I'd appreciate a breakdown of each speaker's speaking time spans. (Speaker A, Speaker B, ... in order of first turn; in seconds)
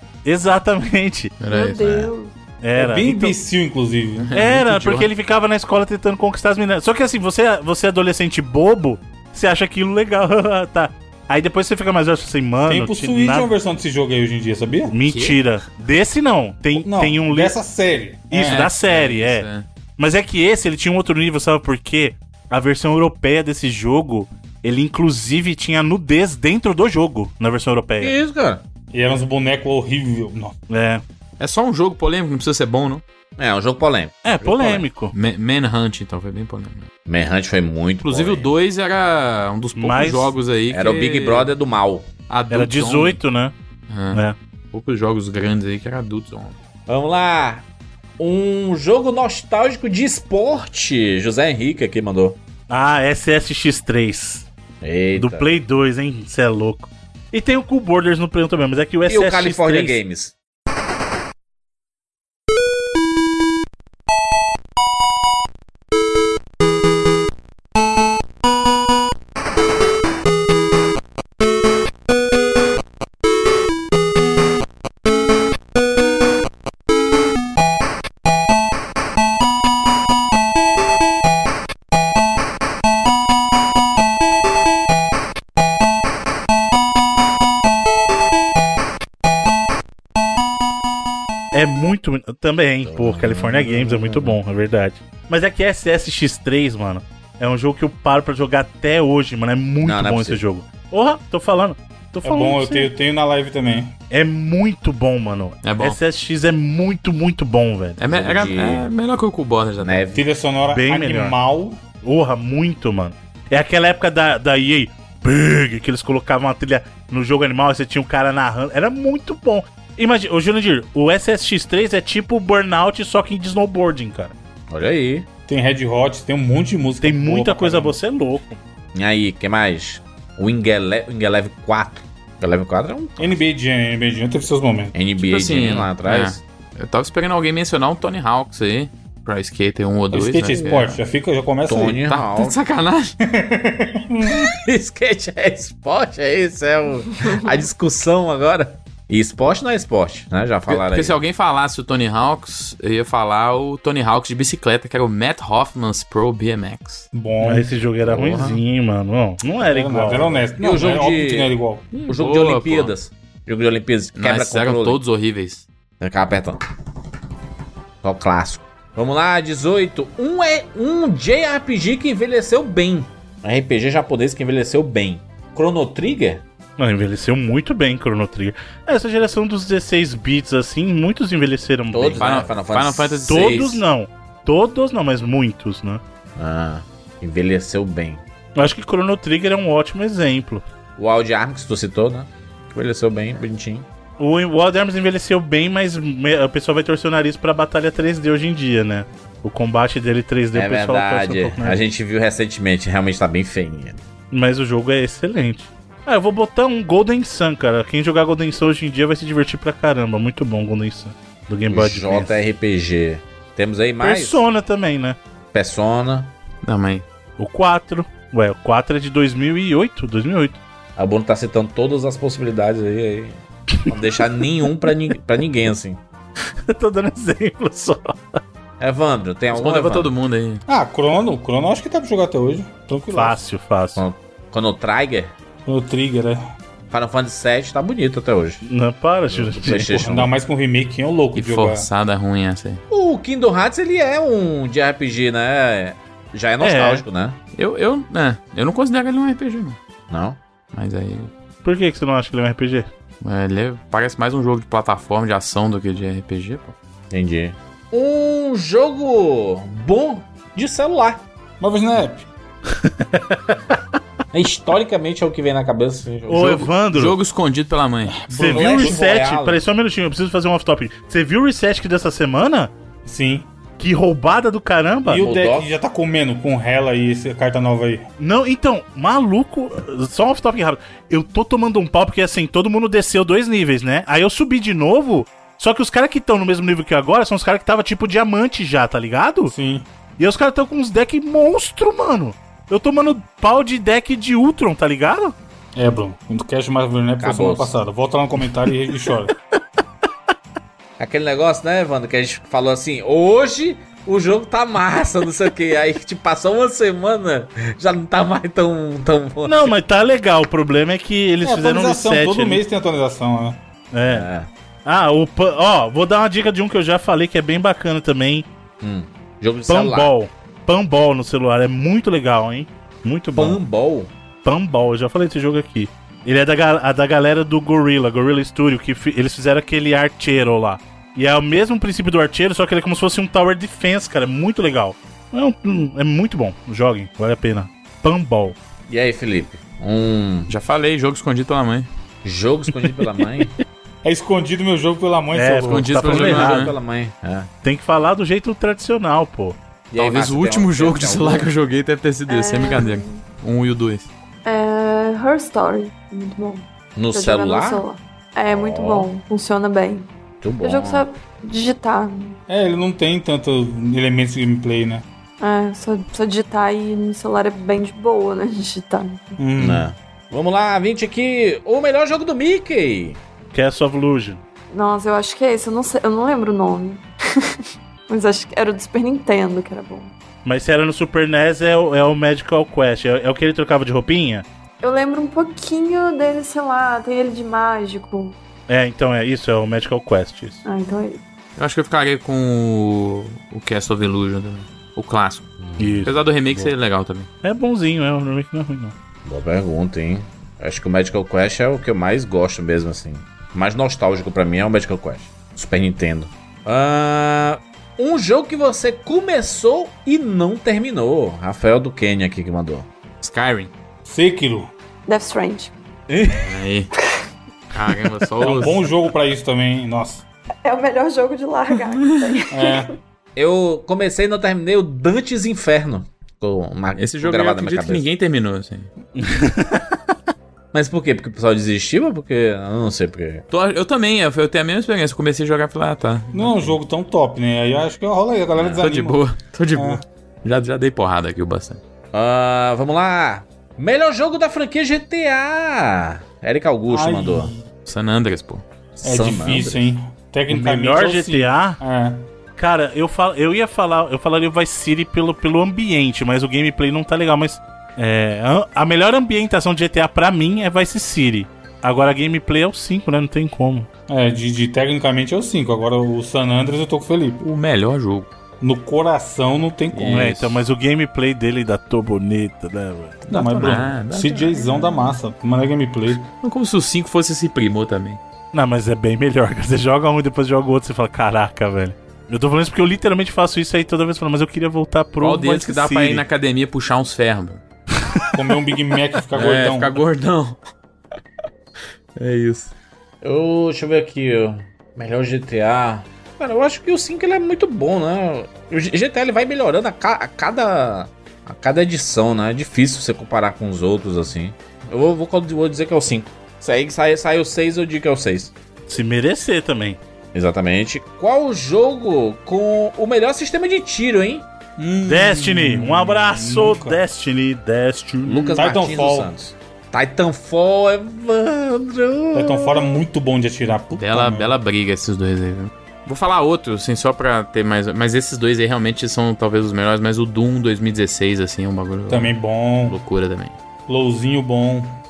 Speaker A: 0.2-1.3, 2.6-3.4, 4.3-13.5, 14.9-17.6, 18.3-28.1, 30.7-31.0, 34.2-35.1, 39.8-40.3, 42.5-43.5, 52.7-54.5, 55.1-60.0, 91.5-102.9, 104.1-108.0, 110.7-111.4, 112.0-124.3, 127.0-128.6, 157.4-160.4, 176.8-182.3, 183.3-186.0, 188.5-190.6, 194.2-201.8, 204.3-212.4, 214.0-215.2, 217.4-220.6, 226.7-228.4, 233.1-234.0, 238.6-240.0, 246.6-247.0, 251.6-252.9, 262.7-263.6, 266.3-267.2, 268.3-272.7, 273.8-275.2, 278.2-289.5, 290.2-295.3, 309.4-312.6, 313.9-314.3, 314.8-318.4, 319.7-323.6, 324.4-338.6, 345.3-346.7, 347.6-349.6, 373.5-374.4, 380.4-384.4, 388.7-390.6, 395.8-396.7, 397.4-398.9, 429.2-429.9, 450.5-451.8, 452.6-463.9, 470.1-473.7, 478.5-486.2, 508.9-510.0, 515.1-518.7
Speaker B: 1.4-2.0, 4.2-5.1, 15.1-15.4, 18.4-19.6, 31.4-33.0, 35.1-36.9, 38.0-41.5, 42.3-43.2, 43.9-44.2, 44.7-46.5, 105.6-106.0, 108.0-110.0, 135.2-141.0, 142.1-143.1, 150.7-157.1, 161.9-162.9, 164.2-165.6, 182.1-183.6, 216.6-217.0, 229.5-230.6, 241.3-242.8, 247.5-249.8, 250.7-251.3, 253.2-256.7, 266.3-268.3, 340.5-341.9, 345.7-346.8, 349.9-354.1, 391.6-395.5, 396.1-397.3, 413.2-413.7, 416.4-416.9, 417.7-418.9, 421.9-422.4, 426.9-428.9, 433.5-436.8, 438.6-441.8, 447.9-448.6, 467.4-468.3, 469.9-470.4, 473.3-474.7, 476.4-478.2, 485.2-487.6, 489.3-490.6, 492.1-492.7, 524.0-532.3, 532.9-533.5
Speaker C: 1.5-2.3, 352.3-353.2, 354.4-360.1, 360.6-362.4, 365.4-369.4, 374.7-380.1, 384.8-388.4, 390.6-391.2, 415.1-415.7, 420.6-422.9
Speaker D: 1.8-2.1, 28.0-28.6, 33.4-34.9, 37.1-38.5, 40.7-42.1, 46.9-47.6, 48.2-52.4, 54.8-55.5, 59.0-60.3, 92.8-94.4, 99.8-100.4, 108.1-108.9, 109.8-110.2, 124.7-125.3, 128.9-133.4, 134.9-136.4, 141.7-142.6, 144.4-151.2, 158.0-158.6, 160.6-161.5, 162.1-165.0, 166.0-166.6, 168.0-176.4, 181.9-183.8, 186.3-188.2, 191.0-193.9, 200.5-204.0, 211.7-214.4, 215.5-216.3, 220.9-226.0, 228.8-230.1, 233.9-235.3, 236.9-238.6, 239.3-240.3, 242.9-247.4, 250.1-250.4, 257.1-261.2, 264.3-266.6, 268.5-269.6, 275.1-275.7, 297.2-297.7, 301.0-309.7, 314.1-314.5, 318.8-320.1, 323.3-324.1, 338.9-340.5, 342.2-343.5, 346.0-347.5, 349.9-351.5, 356.9-357.8, 358.5-359.1, 360.4-361.0, 369.6-373.2, 395.6-396.1, 399.2-412.9, 416.1-416.6, 423.4-428.0, 430.7-433.4, 442.1-447.5, 449.0-449.9, 493.2-508.5, 510.3-514.5, 518.2-523.0
Speaker E: 2.8-4.4, 12.6-14.9, 16.7-18.7, 28.9-30.5, 102.2-103.9, 110.1-111.8, 125.5-128.0, 133.2-134.9, 140.1-142.0, 143.2-144.5, 157.1-157.7, 159.6-161.8, 230.7-233.4, 235.7-236.4, 239.7-241.9, 261.6-262.3, 268.1-269.0, 273.0-273.5, 275.0-278.1, 289.5-289.9, 295.8-299.3, 311.4-313.6, 344.0-346.1, 362.5-365.1, 369.4-369.9, 414.0-414.7, 418.4-420.2, 422.5-422.9, 436.3-439.2, 439.7-440.0, 446.9-447.6, 449.0-452.3, 464.1-467.4, 468.6-470.5, 473.3-476.2, 488.3-490.0, 514.8-517.0, 518.5-519.3, 522.3-524.5, 532.1-533.0, 533.9-534.9